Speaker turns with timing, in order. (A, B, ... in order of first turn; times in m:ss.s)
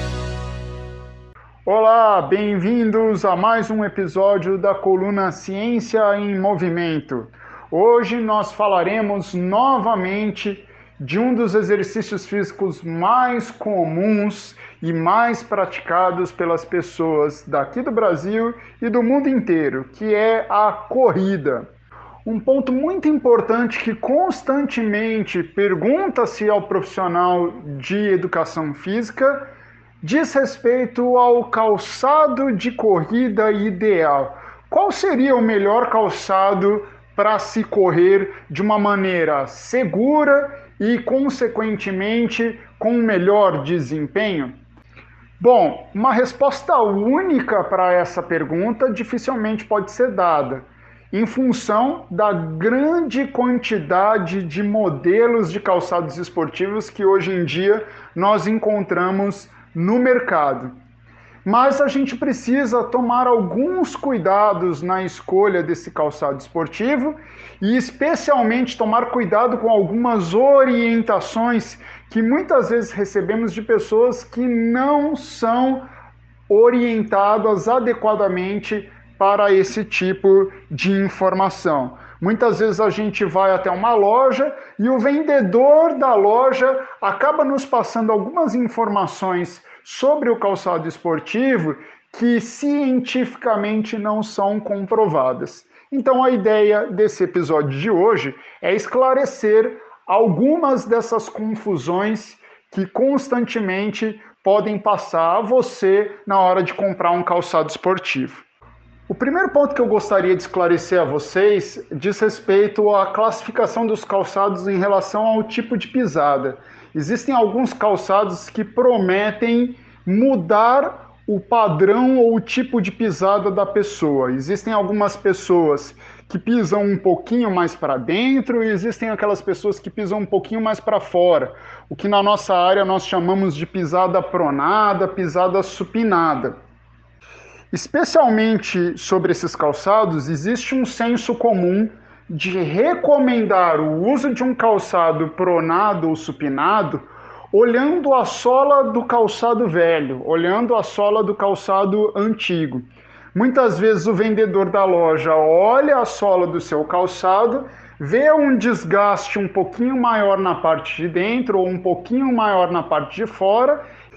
0:01.6-0:21.7 A
0:22.2-0:29.5 A
0:30.0-0:44.6 A
0:45.4-1:00.7 A
1:01.4-1:15.9 A
1:16.5-1:48.4 A
1:49.1-2:16.6 A
2:17.7-2:43.8 A